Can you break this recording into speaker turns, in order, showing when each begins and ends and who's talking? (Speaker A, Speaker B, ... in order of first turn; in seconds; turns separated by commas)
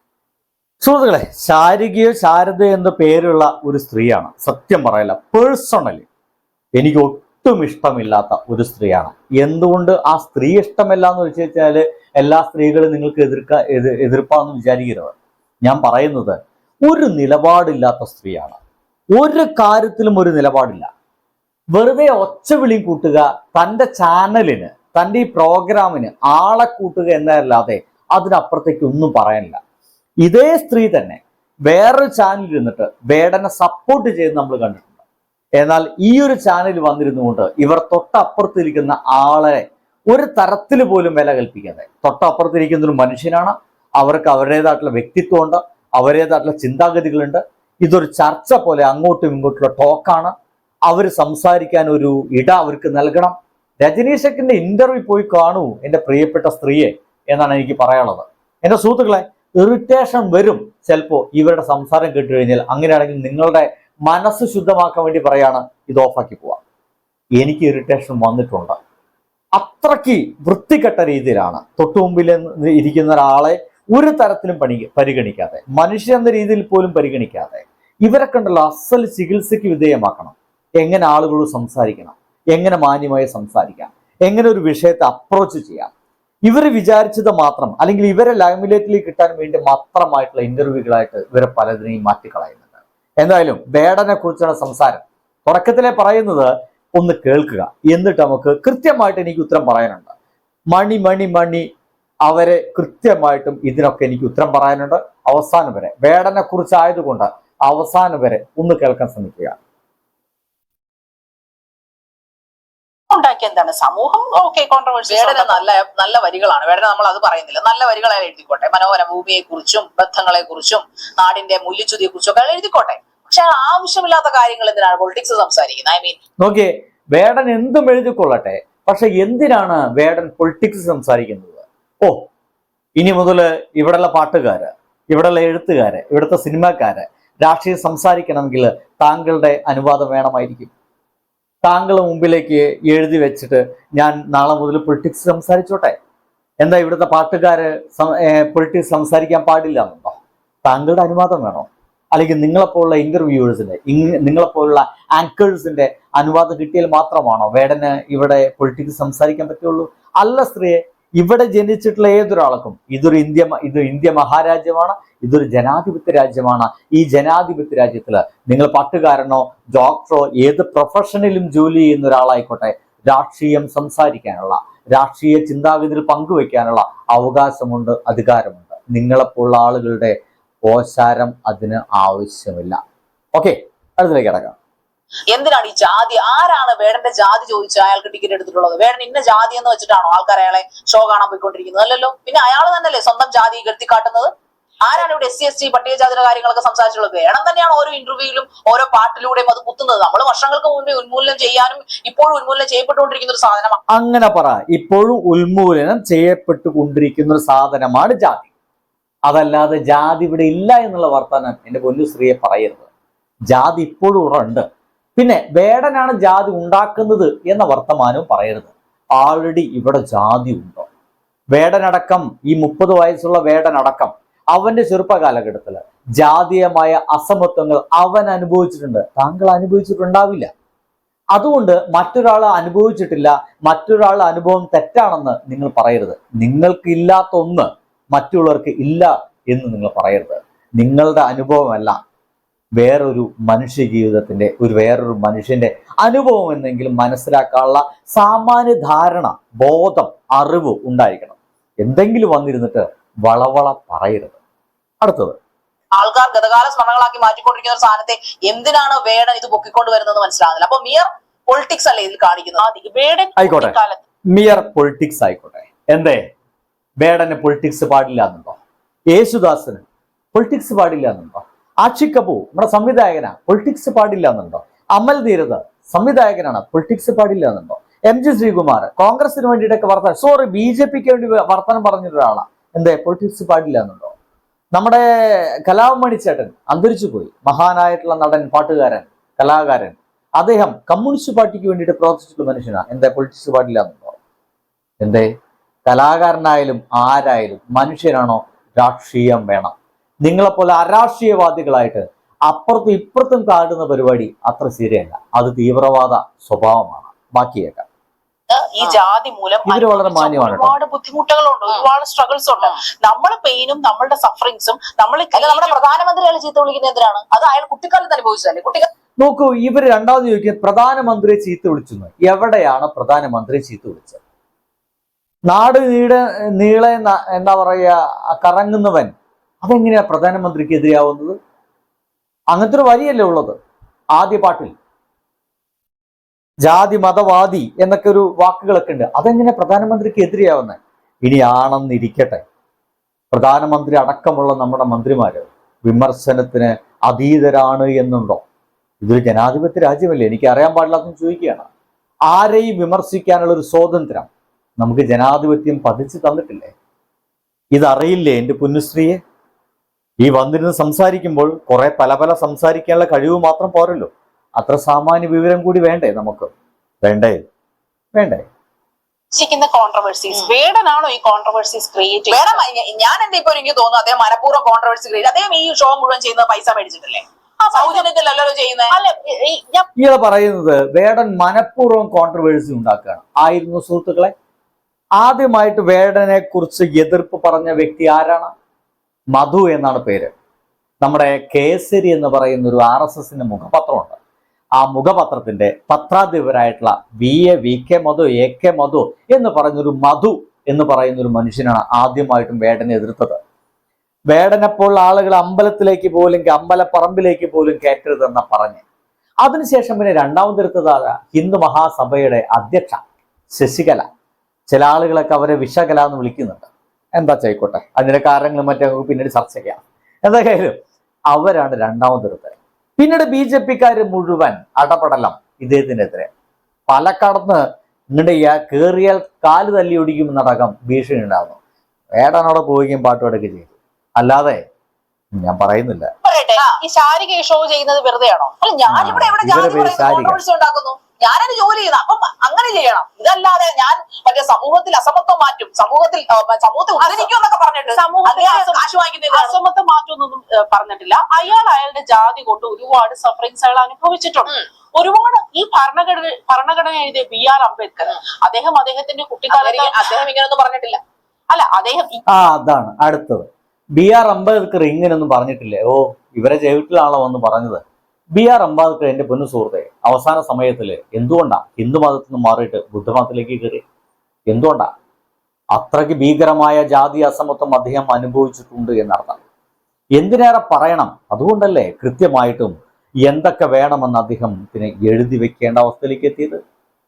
Speaker A: 0.8-6.1, Speaker A: 6.8-18.6, Speaker A: 19.2-20.9, Speaker A: 21.7-29.6, Speaker A: 30.2-34.9, Speaker A: 35.6-50.3, Speaker A: 50.9-66.6, Speaker A: 67.4-68.8, Speaker A: 69.6-85.9, Speaker A: 86.5-100.1, Speaker A: 100.7-101.7, Speaker A: 102.2-109.6, Speaker B: 113.1-115.6, Speaker C: 115.1-126.2, Speaker A: 126.4-132.2, Speaker A: 133.0-140.7, Speaker A: 141.6-145.9, Speaker A: 146.6-180.1, Speaker A: 180.7-182.8, Speaker A: 183.3-184.6, Speaker C: 185.3-194.3, Speaker C: 194.8-203.8, Speaker A: 203.9-208.5, Speaker A: 209.3-212.8, Speaker A: 213.5-214.6, Speaker A: 215.2-220.9, Speaker A: 221.5-230.5, Speaker A: 231.3-242.0, Speaker A: 242.8-254.4, Speaker A: 255.0-255.4, Speaker C: 255.9-262.6, Speaker B: 262.6-264.0, Speaker A: 263.4-263.8, Speaker A: 264.3-266.2, Speaker A: 267.0-268.6, Speaker A: 269.1-284.1, Speaker A: 284.7-294.2, Speaker A: 295.0-295.3, Speaker A: 295.9-299.7, Speaker A: 300.2-307.9, Speaker B: 308.5-315.8, Speaker A: 309.7-310.8, Speaker C: 315.3-318.9, Speaker A: 319.2-324.2, Speaker A: 325.5-331.4, Speaker A: 332.5-333.6, Speaker A: 334.2-334.8, Speaker A: 336.6-342.4, Speaker A: 343.3-348.4, Speaker A: 349.0-351.7, Speaker A: 352.3-354.3, Speaker A: 354.8-356.7, Speaker A: 357.8-359.2, Speaker A: 360.2-366.5, Speaker A: 367.0-367.4, Speaker A: 368.1-368.4, Speaker B: 369.3-372.6, Speaker C: 372.3-378.9, Speaker B: 377.6-378.1, Speaker B: 378.9-379.9, Speaker A: 380.0-384.3, Speaker A: 385.2-388.5, Speaker A: 389.3-390.3, Speaker A: 391.0-394.2, Speaker A: 394.8-403.4, Speaker A: 404.3-408.8, Speaker A: 409.4-413.0, Speaker A: 413.5-414.1, Speaker A: 414.7-420.8, Speaker A: 421.3-426.3, Speaker A: 426.9-427.6, Speaker A: 428.1-431.6, Speaker A: 432.2-434.6, Speaker A: 435.4-436.1, Speaker B: 436.2-438.5, Speaker C: 438.6-449.6, Speaker A: 438.9-440.4, Speaker B: 447.0-447.3, Speaker B: 447.9-448.8, Speaker B: 449.3-460.2, Speaker C: 459.5-461.0, Speaker B: 461.5-462.2, Speaker A: 462.3-467.8, Speaker A: 468.3-473.8, Speaker A: 474.5-474.9, Speaker A: 475.7-479.4, Speaker A: 480.2-486.6